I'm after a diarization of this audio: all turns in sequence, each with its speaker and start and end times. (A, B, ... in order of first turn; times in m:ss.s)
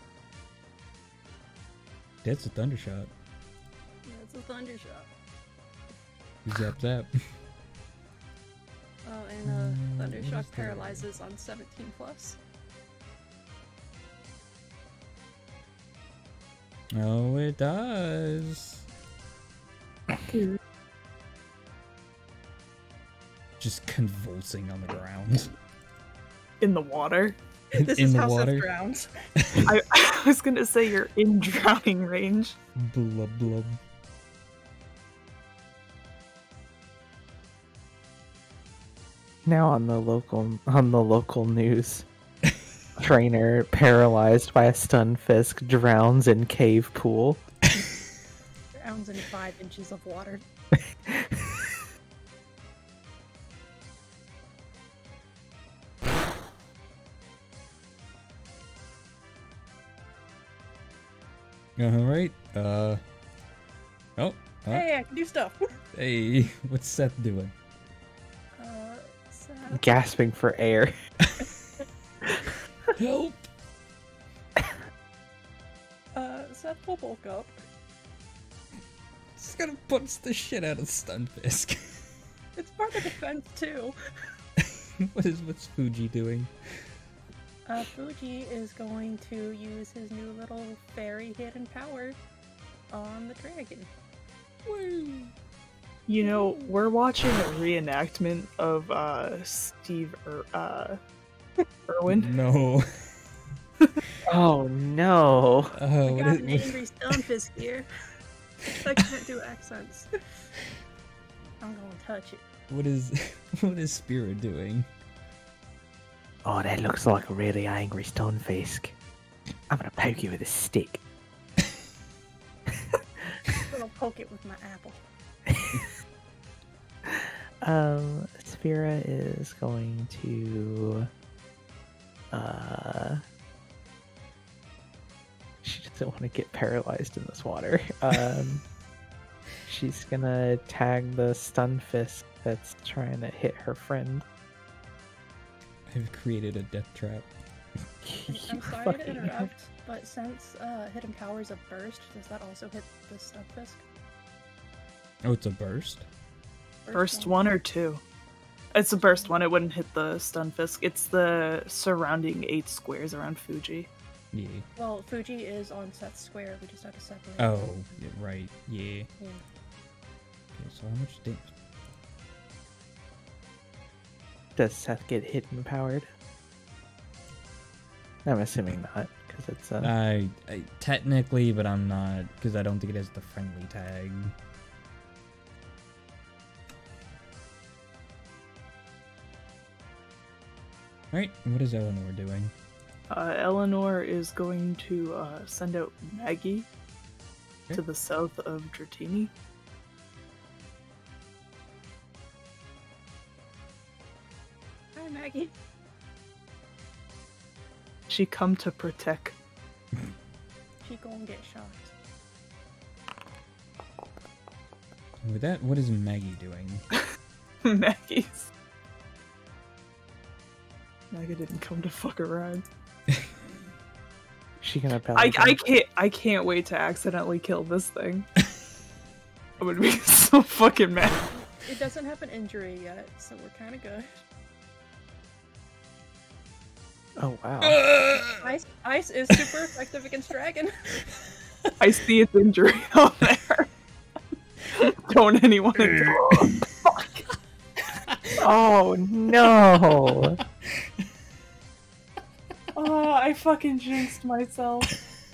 0:02.2-0:03.1 A
0:04.0-0:05.1 B
0:06.4-0:07.1 A
0:09.0-0:12.4 B
0:09.4-0:11.0 A
0:16.9-0:18.9 A
0:20.3-0:20.6 C
0:23.6-0:25.5 A
0:26.6-0:27.4 C
0:27.8-0:28.7 A
0:27.8-0:29.1 B
0:29.4-0:29.7 A
0:29.7-0:32.6 C
0:32.8-0:33.8 A
0:39.4-0:42.0 D
0:43.0-0:47.4 D
0:48.7-0:50.4 B
1:01.8-1:03.0 A
1:04.2-1:04.8 A
1:04.7-1:05.7 B
1:05.9-1:07.5 A
1:08.6-1:09.9 B
1:09.7-1:10.9 D
1:13.0-1:13.5 A
1:16.1-1:17.6 B
1:19.4-1:22.1 A
1:22.6-1:24.0 B
1:24.6-1:26.5 A
1:27.6-1:32.2 B
1:32.9-1:33.9 B
1:34.6-1:35.3 A
1:36.1-1:41.0 C
1:36.2-1:36.6 B
1:41.9-1:42.3 C
1:42.1-1:43.1 A
1:44.2-1:45.7 D
1:45.8-1:46.8 A
1:46.0-1:47.9 B
1:48.8-1:50.2 B
1:51.6-1:52.4 B
1:52.7-1:54.9 A
1:56.4-1:58.9 D
1:59.7-2:01.0 D
2:03.6-2:05.0 B
2:07.0-2:11.1 D
2:12.3-2:13.2 D
2:15.6-2:18.6 D
2:19.6-2:24.2 D
2:25.9-2:27.3 A
2:28.0-2:29.5 D
2:28.3-2:33.8 B
2:35.2-2:36.1 A
2:36.8-2:37.4 B
2:36.9-2:38.0 C
2:38.7-2:43.9 C
2:39.1-2:39.4 B
2:44.3-2:44.7 A
2:44.8-2:47.8 B
2:47.4-2:49.1 A
2:50.5-2:51.5 A
2:54.6-2:56.1 D
2:58.2-2:59.9 D
2:59.8-3:04.3 A
3:11.1-3:12.5 A
3:13.1-3:16.7 C
3:17.7-3:19.3 C
3:24.9-3:25.5 B
3:28.1-3:29.4 C
3:30.8-3:31.9 B
3:35.2-3:36.8 A
3:37.6-3:38.5 C
3:41.1-3:42.6 C
3:44.6-3:45.6 D
3:45.2-3:48.3 C
3:49.6-3:51.2 C
3:51.3-3:54.1 B
3:57.2-3:57.8 D
3:57.6-3:58.4 A
3:58.2-4:00.7 B
4:01.8-4:03.7 C
4:04.8-4:07.2 C
4:05.9-4:06.6 A
4:08.4-4:10.4 D
4:12.8-4:14.9 C